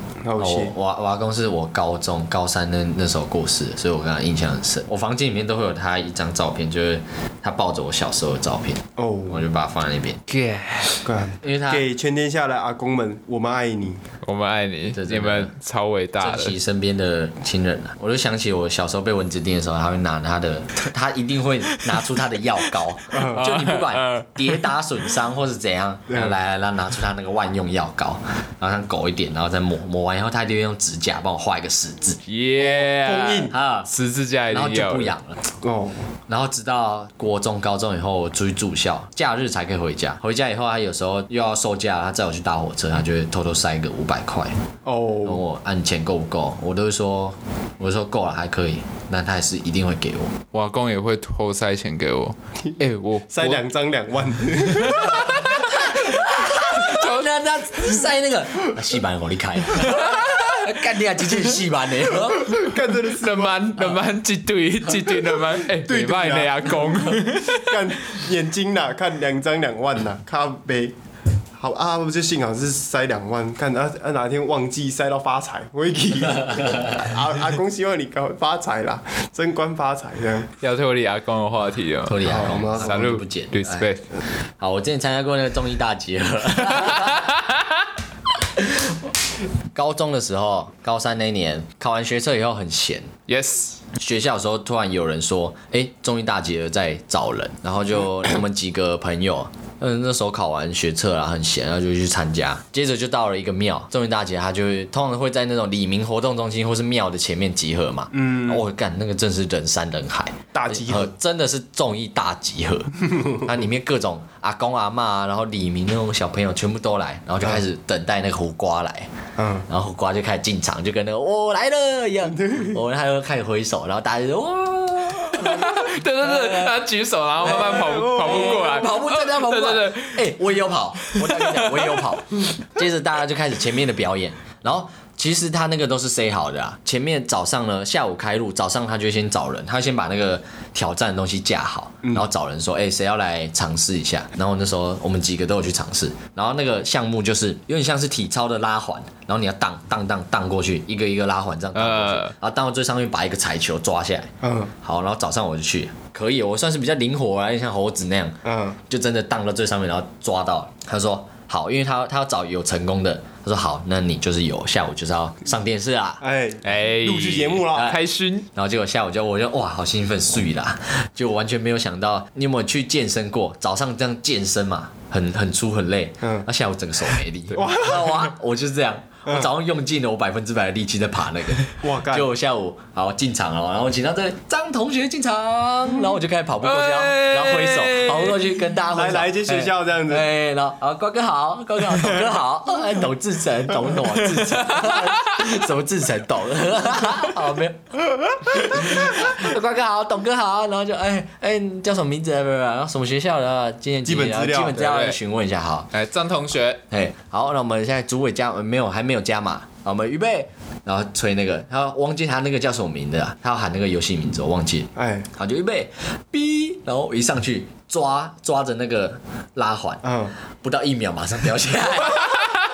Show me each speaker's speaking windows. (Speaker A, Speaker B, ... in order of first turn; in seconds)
Speaker A: 0.2-0.7, 9.0-9.4, 11.0-14.0, 23.1-23.4, 26.1-26.3, 32.6-33.5, 35.6-36.0, 44.8-45.4, 53.3-55.4, 62.3-63.6, 65.7-70.9, 71.5-80.5, 82.2-83.1, 108.1-108.6, 110.5-111.1, 119.4-119.7, 122.4-122.7, 127.7-128.8, 154.4-154.7, 158.4-158.8, 166.2-167.9, 177.5-178.3, 181.8-182.3, 188.9-190.3, 204.0-204.8, 214.9-215.3, 220.0-220.3
Speaker B: 0.4-10.2, 11.4-11.8, 14.9-15.5, 16.2-32.2, 33.5-33.9, 34.5-35.4, 36.3-44.5, 45.2-50.4, 55.7-62.6, 82.0-83.9, 84.6-87.2, 88.6-89.0, 89.7-93.1, 94.0-119.1, 119.7-126.8, 127.4-166.2, 167.7-168.0, 168.5-205.9, 206.9-220.0, 220.6-222.4
Speaker C: 10.3-11.1, 14.2-16.6, 21.7-22.0, 23.3-24.7, 32.2-35.1, 50.5-53.6, 54.7-56.2, 56.7-57.3, 59.8-60.6, 63.1-67.8, 80.6-84.0, 86.8-87.6, 93.3-93.8, 125.3-130.4, 131.0-132.2, 151.7-152.3, 166.6-168.5, 186.6-188.6, 194.6-195.1, 204.8-205.2, 205.9-206.8